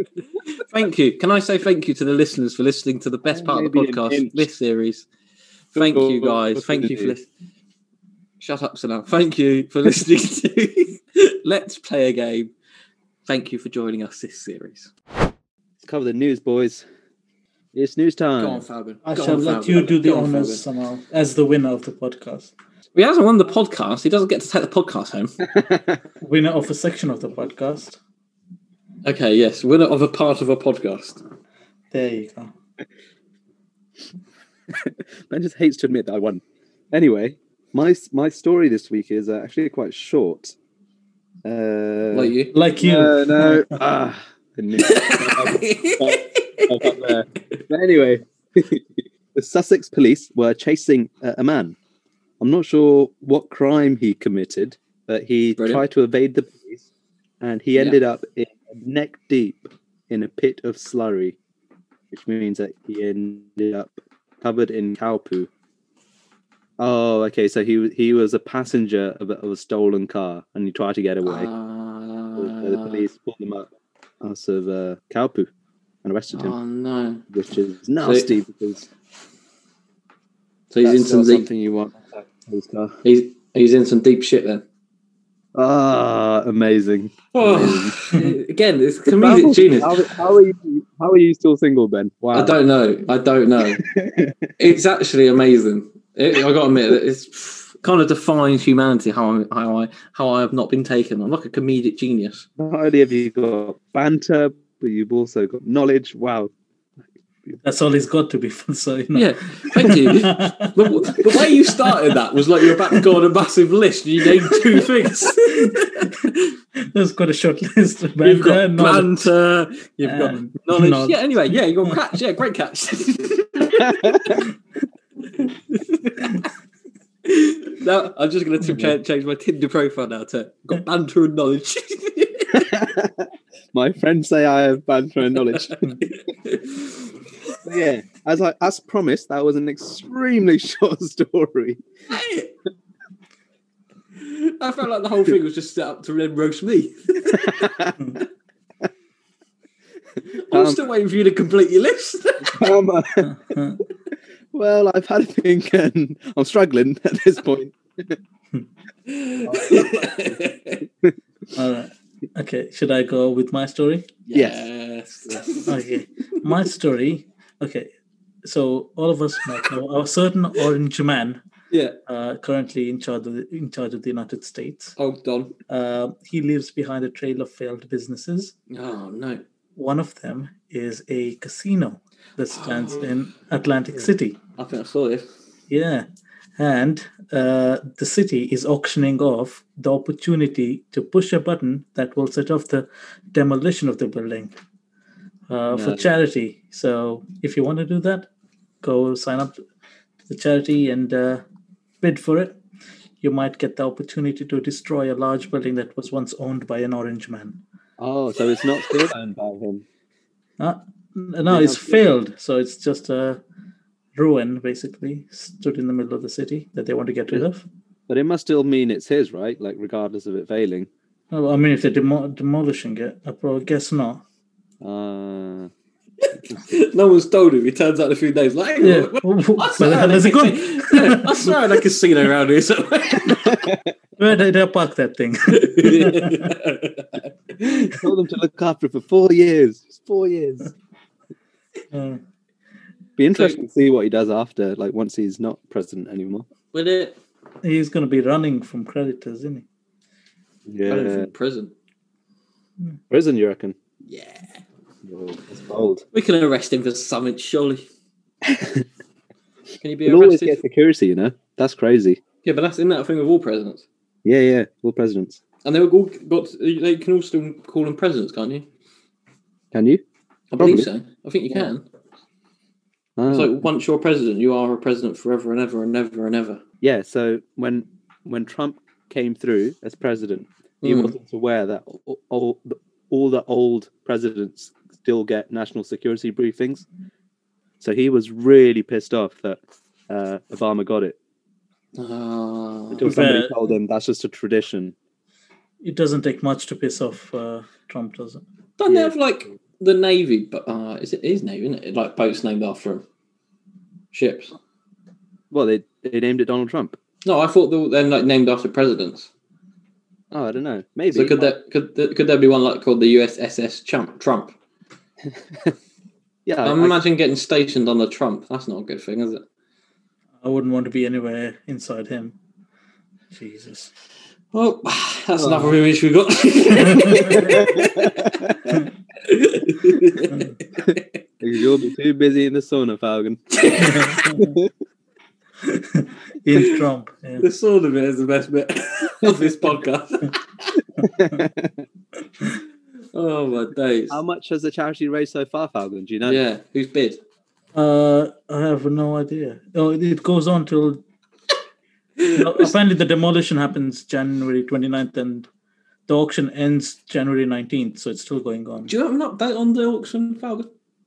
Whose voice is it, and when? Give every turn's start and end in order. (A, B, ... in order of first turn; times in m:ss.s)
0:00.5-0:05.1 A
0:03.3-0:04.5 B
0:05.7-0:07.3 A
0:05.8-0:07.1 B
0:08.4-0:12.5 A
0:13.3-0:14.9 A
0:15.8-0:16.8 B
0:17.7-0:18.6 B
0:18.4-0:20.6 A
0:19.0-0:22.5 C
0:23.0-0:25.4 A
0:25.5-0:26.0 B
0:26.2-0:28.0 C
0:29.0-0:31.2 A
0:31.9-0:32.5 C
0:34.7-0:40.6 B
0:41.4-0:51.8 B
0:42.1-0:42.5 A
0:42.5-0:43.8 C
0:44.8-0:47.2 A
0:52.4-0:56.9 B
0:55.6-0:55.8 A
0:57.4-1:01.4 B
1:02.1-1:05.5 B
1:06.8-1:11.5 B
1:11.2-1:13.0 A
1:12.4-1:15.5 B
1:16.0-1:16.6 B
1:16.3-1:17.2 A
1:17.3-1:18.9 B
1:18.0-1:18.3 A
1:20.7-1:21.4 A
1:20.8-1:23.0 B
1:23.0-1:24.6 A
1:25.6-1:28.0 B
1:27.3-1:30.1 A
1:29.1-1:32.6 B
1:32.3-1:33.8 A
1:33.7-1:34.5 B
1:34.6-1:42.5 A
1:42.6-1:46.5 B
1:47.6-1:52.2 C
1:49.1-1:56.5 A
1:52.7-1:53.1 C
1:54.4-1:54.8 C
1:55.5-1:56.1 C
1:56.8-1:59.3 C
1:58.2-2:04.2 A
2:00.0-2:01.2 C
2:03.8-2:04.4 B
2:05.4-2:06.5 A
2:07.2-2:12.7 A
2:08.7-2:09.0 B
2:12.5-2:15.8 B
2:15.4-2:17.6 A
2:17.6-2:21.8 B
2:22.1-2:22.5 A
2:24.2-2:27.7 A
2:27.3-2:28.1 B
2:30.3-2:32.7 A
2:30.5-2:30.8 B
2:32.5-2:33.4 B
2:33.2-2:33.8 C
2:34.5-2:38.2 B
2:39.1-2:40.8 A
2:39.4-2:40.4 B
2:41.5-2:44.2 C
2:44.3-2:45.8 A
2:44.3-2:44.6 B
2:45.7-2:47.9 C
2:48.4-2:51.4 C
2:51.7-2:52.0 A
2:52.1-2:55.0 C
2:55.0-2:55.5 A
2:55.7-2:58.5 C
2:58.7-2:59.4 A
2:59.8-3:04.4 C
3:02.5-3:03.1 A
3:04.6-3:05.3 A
3:05.7-3:06.1 C
3:06.6-3:14.5 C
3:15.5-3:18.3 C
3:15.7-3:16.1 B
3:18.8-3:19.6 C
3:20.3-3:21.4 C
3:22.0-3:22.6 C
3:23.2-3:27.6 C
3:28.0-3:29.8 B
3:30.6-3:33.4 C
3:31.5-3:32.0 B
3:34.2-3:37.6 C
3:38.1-3:40.9 B
3:41.3-3:44.2 C
3:44.8-3:45.7 B
3:46.3-3:53.7 A
3:48.8-3:51.6 C
3:53.2-3:53.9 B
3:54.2-3:56.5 C
3:55.5-3:58.0 A
3:57.6-4:00.7 B
4:01.9-4:02.2 C
4:03.2-4:06.5 B
4:06.7-4:07.2 A
4:07.6-4:09.6 C
4:10.7-4:11.3 B
4:10.9-4:11.7 A
4:13.1-4:13.8 B
4:14.1-4:14.6 A
4:15.0-4:16.0 B
4:16.1-4:17.9 A
4:18.4-4:18.8 B
4:19.8-4:20.6 A
4:20.0-4:22.2 B
4:22.4-4:23.9 A
4:24.2-4:25.4 B
4:25.6-4:28.7 A
4:29.7-4:30.0 B
4:30.5-4:31.8 A
4:30.6-4:30.9 B
4:33.2-4:33.6 B
4:33.3-4:36.6 A
4:36.8-4:46.9 B
4:40.8-4:41.1 A
4:47.8-4:51.2 B
4:52.0-4:53.1 A
4:52.9-4:55.0 B
4:53.0-4:53.7 C
4:55.8-4:58.4 C
4:58.8-5:03.0 A
4:58.9-4:59.1 B
5:04.1-5:04.6 A
5:05.5-5:07.0 B
5:07.2-5:09.3 A
5:10.3-5:11.5 B
5:11.1-5:14.6 A
5:15.2-5:15.7 B
5:16.5-5:17.0 B
5:16.6-5:19.4 A
5:20.4-5:22.4 C
5:23.3-5:23.9 C
5:24.5-5:28.2 A
5:25.4-5:25.8 B
5:26.9-5:27.6 C
5:27.2-5:28.8 B
5:29.2-5:31.6 A
5:30.3-5:30.6 C
5:30.8-5:33.6 B
5:33.5-5:34.4 A
5:33.8-5:34.6 C
5:34.4-5:34.7 B
5:35.6-5:37.5 C
5:37.4-5:40.8 A
5:41.0-5:41.9 B
5:43.1-5:44.2 A
5:44.1-5:46.4 B
5:46.2-5:47.2 A
5:47.7-5:51.0 C
5:52.2-5:52.7 A
5:52.3-5:55.5 C
5:56.1-5:58.9 C
5:58.9-6:00.7 A